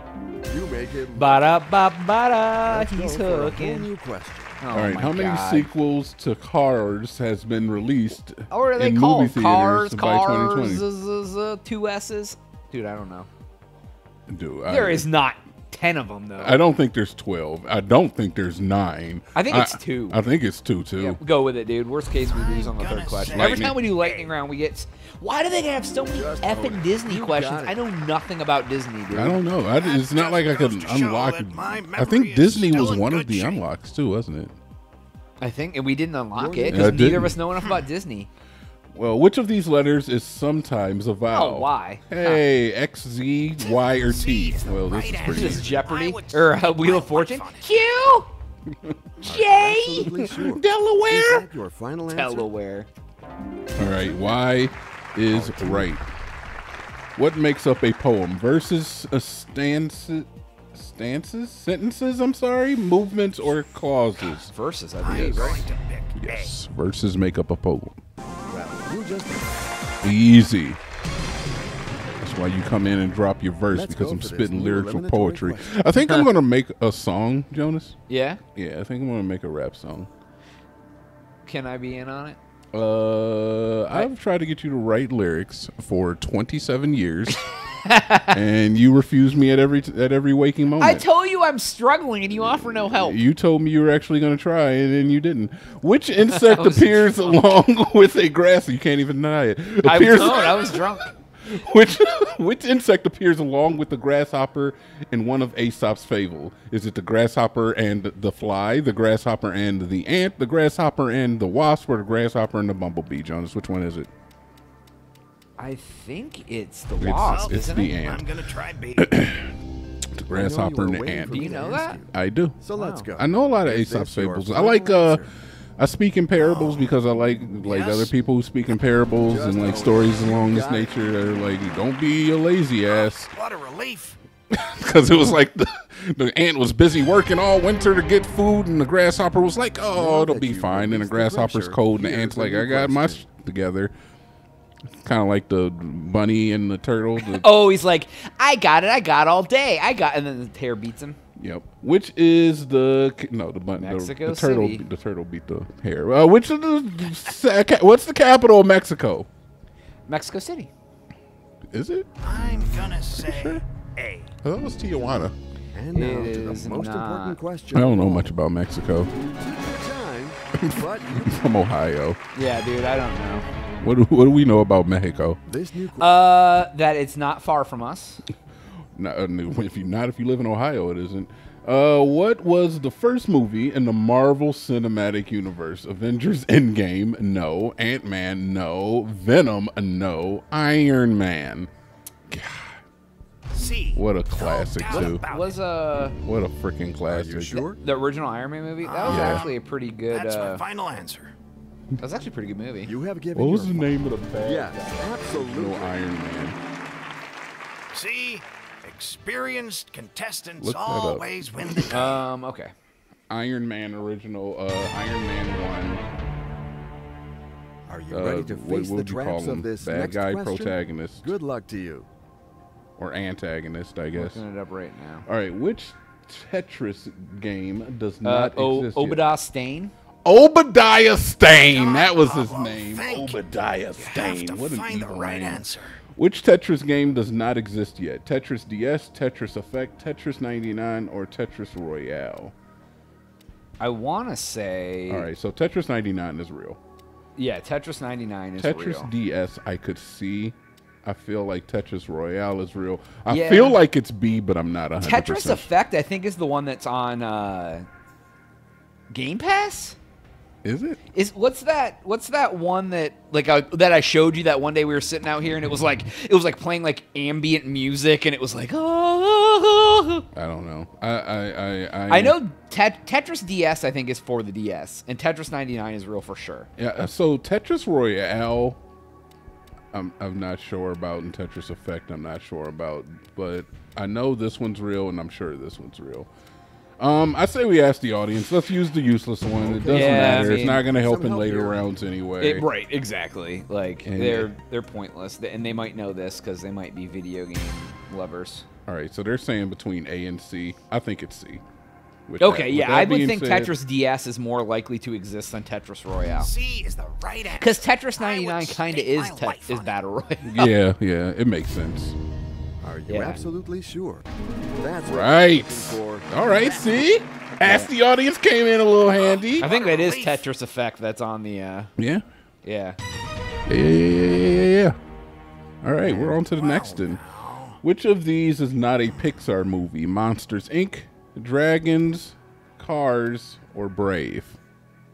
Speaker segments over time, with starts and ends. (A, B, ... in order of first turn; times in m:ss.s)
0:00.5-0:01.4 A
0:01.1-0:03.9 B
0:02.7-0:04.6 A
0:04.6-0:05.7 B
0:04.7-0:10.8 C
0:08.5-0:13.3 B
0:14.3-0:15.1 C
0:14.7-0:16.6 B
0:16.4-0:21.2 C
0:19.3-0:20.2 B
0:21.0-0:29.4 B
0:22.2-0:24.3 D
0:23.3-0:23.8 C
0:26.1-0:27.8 A
0:29.1-0:34.6 C
0:29.7-0:33.6 D
0:35.4-0:38.3 B
0:36.3-0:37.2 A
0:36.7-0:37.4 C
0:38.9-0:45.8 C
0:41.3-0:42.4 B
0:43.6-0:47.8 D
0:45.2-0:48.3 B
0:49.2-0:50.1 B
0:49.2-0:52.5 A
0:50.0-0:51.5 C
0:52.1-0:52.9 B
0:53.8-0:56.0 C
0:53.8-0:54.2 A
0:55.3-0:55.9 A
0:57.2-1:04.5 C
1:04.5-1:05.6 B
1:05.0-1:06.5 D
1:05.0-1:05.6 A
1:06.2-1:08.0 C
1:08.5-1:09.6 A
1:10.0-1:10.8 C
1:12.2-1:18.0 C
1:13.7-1:15.7 A
1:16.0-1:16.3 B
1:18.1-1:18.4 B
1:18.5-1:20.1 C
1:21.4-1:22.4 B
1:22.7-1:27.4 C
1:27.8-1:28.4 B
1:28.3-1:31.0 C
1:30.8-1:33.2 B
1:33.0-1:54.1 C
1:36.3-1:37.4 B
1:39.8-1:41.1 B
1:55.6-1:57.9 B
1:57.0-1:58.3 C
1:57.2-1:59.2 D
1:59.0-1:59.5 C
2:00.2-2:01.6 C
2:00.3-2:05.3 A
2:01.3-2:02.0 B
2:02.1-2:02.6 C
2:02.8-2:03.1 B
2:03.2-2:05.2 C
2:05.8-2:13.3 C
2:06.4-2:06.9 D
2:07.6-2:08.1 D
2:09.3-2:10.9 A
2:12.9-2:14.2 D
2:14.5-2:23.9 C
2:19.9-2:23.2 A
2:25.0-2:27.4 C
2:27.2-2:31.2 B
2:31.4-2:39.3 C
2:33.8-2:34.8 B
2:40.1-2:40.7 B
2:41.7-2:42.1 C
2:42.2-2:44.3 D
2:43.1-2:43.6 C
2:44.4-2:45.3 C
2:45.7-2:48.3 A
2:45.9-2:47.4 B
2:47.7-2:49.1 C
2:49.3-2:51.4 A
2:50.6-2:52.2 C
2:52.3-2:53.4 B
2:53.8-2:55.4 C
2:55.5-2:56.2 A
2:56.0-2:58.2 B
2:58.9-3:11.7 C
3:12.3-3:12.8 C
3:13.5-3:15.5 D
3:13.9-3:15.2 C
3:15.0-3:16.2 B
3:16.1-3:17.7 C
3:17.1-3:17.8 A
3:17.8-3:20.6 B
3:18.8-3:21.3 D
3:19.1-3:19.4 C
3:22.0-3:22.9 B
3:22.8-3:23.9 A
3:23.3-3:26.6 C
3:24.4-3:26.0 A
3:27.9-3:32.2 D
3:30.6-3:32.1 C
3:31.9-3:32.7 B
3:33.3-3:36.0 C
3:37.9-3:42.1 A
3:38.1-3:41.3 C
3:43.0-3:44.4 C
3:44.1-3:45.2 B
3:45.3-3:49.2 C
3:48.2-3:49.9 B
3:50.2-4:02.5 C
3:51.6-3:53.4 D
3:54.0-3:56.0 D
4:03.8-4:05.3 B
4:05.1-4:06.8 C
4:07.4-4:09.1 B
4:08.6-4:15.7 C
4:13.3-4:13.8 B
4:15.0-4:17.8 B
4:19.1-4:20.0 B
4:20.6-4:21.0 C
4:21.1-4:30.3 B
4:30.3-4:32.4 C
4:32.1-4:36.7 B
4:36.8-4:38.8 C
4:39.9-4:46.3 C
4:47.0-4:52.6 C
4:49.6-4:51.8 A
4:49.9-4:50.8 B
4:52.4-4:58.6 B
4:54.0-4:54.5 C
4:58.9-5:01.6 C
5:02.3-5:03.7 C
5:02.4-5:06.5 B
5:06.4-5:10.0 D
5:07.6-5:10.7 B
5:10.4-5:12.2 C
5:12.8-5:14.2 A
5:13.1-5:13.4 B
5:14.8-5:16.3 A
5:15.0-5:19.7 C
5:17.6-5:17.9 B
5:19.2-5:20.4 D
5:19.6-5:21.9 B
5:22.0-5:22.2 C
5:22.6-5:23.0 B
5:23.7-5:25.0 C
5:25.8-5:27.2 C
5:26.4-5:27.8 D
5:27.8-5:34.6 C